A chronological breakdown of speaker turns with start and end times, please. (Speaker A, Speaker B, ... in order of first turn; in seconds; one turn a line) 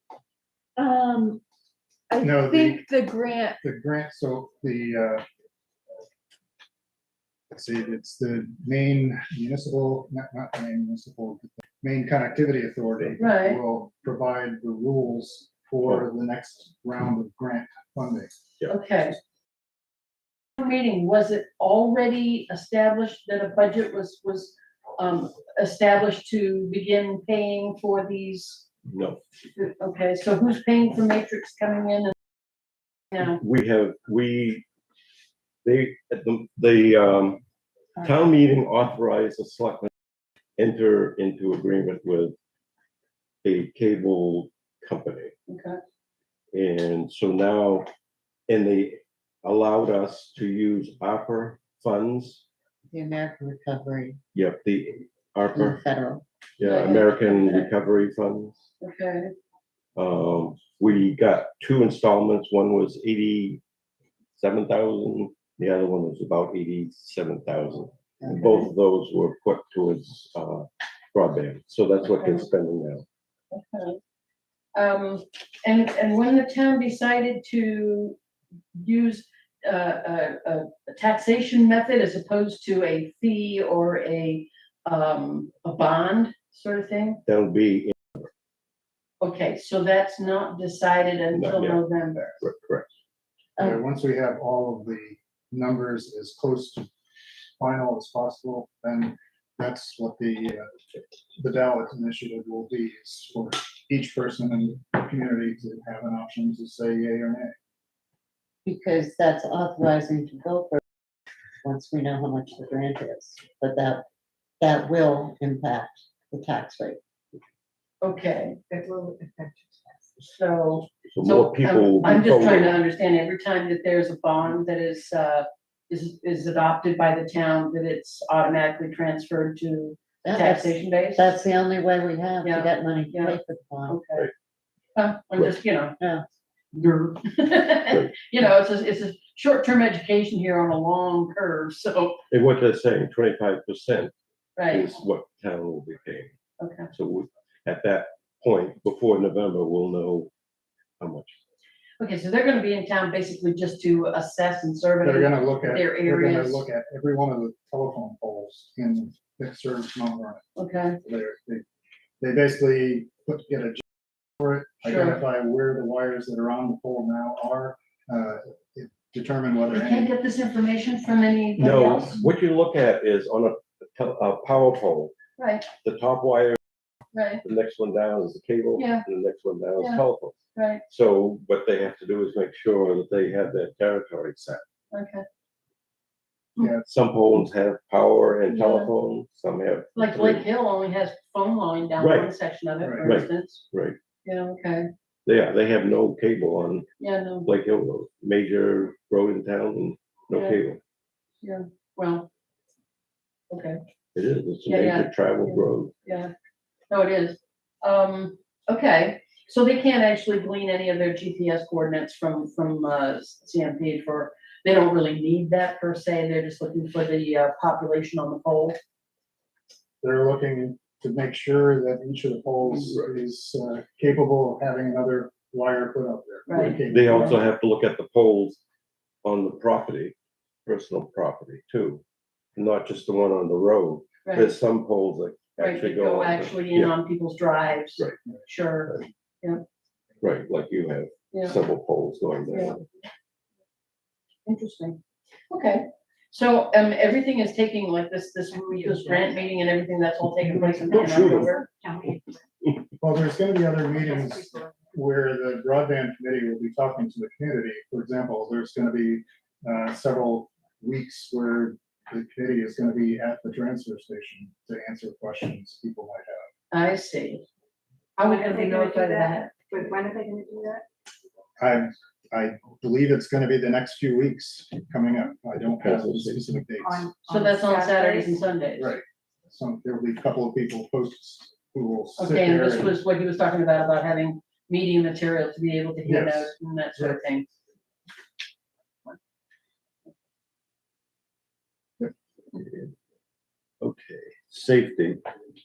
Speaker A: 0.8-1.4
Speaker A: 2.1-3.6
Speaker B: 2.2-2.8
Speaker B: 3.6-5.2
Speaker B: 7.5-18.4
Speaker C: 13.2-13.6
Speaker C: 18.7-19.2
Speaker C: 20.6-28.6
Speaker D: 28.9-29.2
Speaker C: 29.6-32.1
Speaker D: 33.2-34.6
Speaker D: 35.6-37.4
Speaker D: 38.0-39.9
Speaker D: 40.6-42.3
Speaker D: 43.4-45.3
Speaker C: 45.5-45.8
Speaker D: 46.5-47.9
Speaker D: 48.5-52.4
Speaker E: 52.9-54.2
Speaker D: 54.3-55.8
Speaker E: 55.5-56.2
Speaker D: 56.6-58.6
Speaker C: 56.6-57.3
Speaker E: 56.8-57.6
Speaker C: 58.8-59.3
Speaker D: 60.0-63.6
Speaker D: 64.4-73.0
Speaker C: 73.5-74.0
Speaker C: 74.7-78.2
Speaker C: 78.7-87.2
Speaker D: 87.2-88.3
Speaker C: 89.2-92.4
Speaker D: 91.3-91.8
Speaker D: 92.4-92.9
Speaker B: 93.6-96.9
Speaker B: 97.6-100.7
Speaker B: 101.3-107.5
Speaker E: 108.6-110.8
Speaker E: 111.6-114.0
Speaker E: 114.6-117.0
Speaker C: 118.0-118.6
Speaker F: 118.7-119.6
Speaker C: 120.2-131.3
Speaker D: 121.1-122.8
Speaker E: 130.2-134.0
Speaker C: 132.4-134.3
Speaker C: 134.9-135.9
Speaker E: 136.0-136.2
Speaker C: 136.8-142.2
Speaker D: 137.9-138.1
Speaker D: 142.3-144.1
Speaker C: 144.6-144.9
Speaker D: 144.7-146.3
Speaker C: 146.6-146.9
Speaker D: 146.9-150.3
Speaker D: 151.0-151.3
Speaker C: 152.0-156.6
Speaker B: 155.0-160.4
Speaker C: 160.6-161.0
Speaker B: 161.0-161.6
Speaker B: 162.2-163.8
Speaker B: 164.4-170.1
Speaker C: 164.8-165.2
Speaker C: 169.7-172.2
Speaker D: 171.6-175.1
Speaker C: 175.4-175.7
Speaker D: 175.8-176.6
Speaker C: 177.1-177.4
Speaker D: 177.4-180.4
Speaker C: 178.8-179.1
Speaker C: 180.5-180.8
Speaker D: 180.9-184.6
Speaker C: 184.9-185.2
Speaker B: 186.6-186.8
Speaker D: 186.8-190.4
Speaker C: 188.5-188.9
Speaker C: 189.9-193.6
Speaker D: 192.0-192.3
Speaker B: 192.8-193.1
Speaker D: 193.0-194.0
Speaker C: 194.2-194.9
Speaker D: 195.2-196.9
Speaker C: 197.0-197.5
Speaker D: 197.4-200.8
Speaker C: 200.3-200.6
Speaker C: 201.4-202.3
Speaker C: 203.5-203.8
Speaker D: 204.1-205.9
Speaker C: 204.7-206.3
Speaker C: 206.9-218.8
Speaker B: 220.0-227.4
Speaker D: 222.8-223.1
Speaker C: 226.5-227.4
Speaker D: 226.6-228.6
Speaker D: 229.2-232.0
Speaker D: 232.6-236.9
Speaker C: 234.2-234.5
Speaker C: 235.6-239.6
Speaker D: 240.2-242.8
Speaker C: 241.3-241.6
Speaker C: 242.5-242.8
Speaker C: 244.4-245.0
Speaker C: 245.5-251.7
Speaker A: 248.7-248.9
Speaker F: 250.9-252.4
Speaker D: 250.9-251.5
Speaker B: 253.0-266.5
Speaker F: 253.9-254.9
Speaker C: 266.7-267.4
Speaker C: 268.2-269.5
Speaker F: 268.2-270.8
Speaker B: 271.6-277.1
Speaker D: 275.7-276.5
Speaker F: 276.8-278.2
Speaker C: 277.3-279.0
Speaker A: 277.6-278.3
Speaker B: 278.8-283.0
Speaker C: 282.2-287.5
Speaker B: 286.0-287.2
Speaker D: 292.6-292.9
Speaker D: 293.8-295.2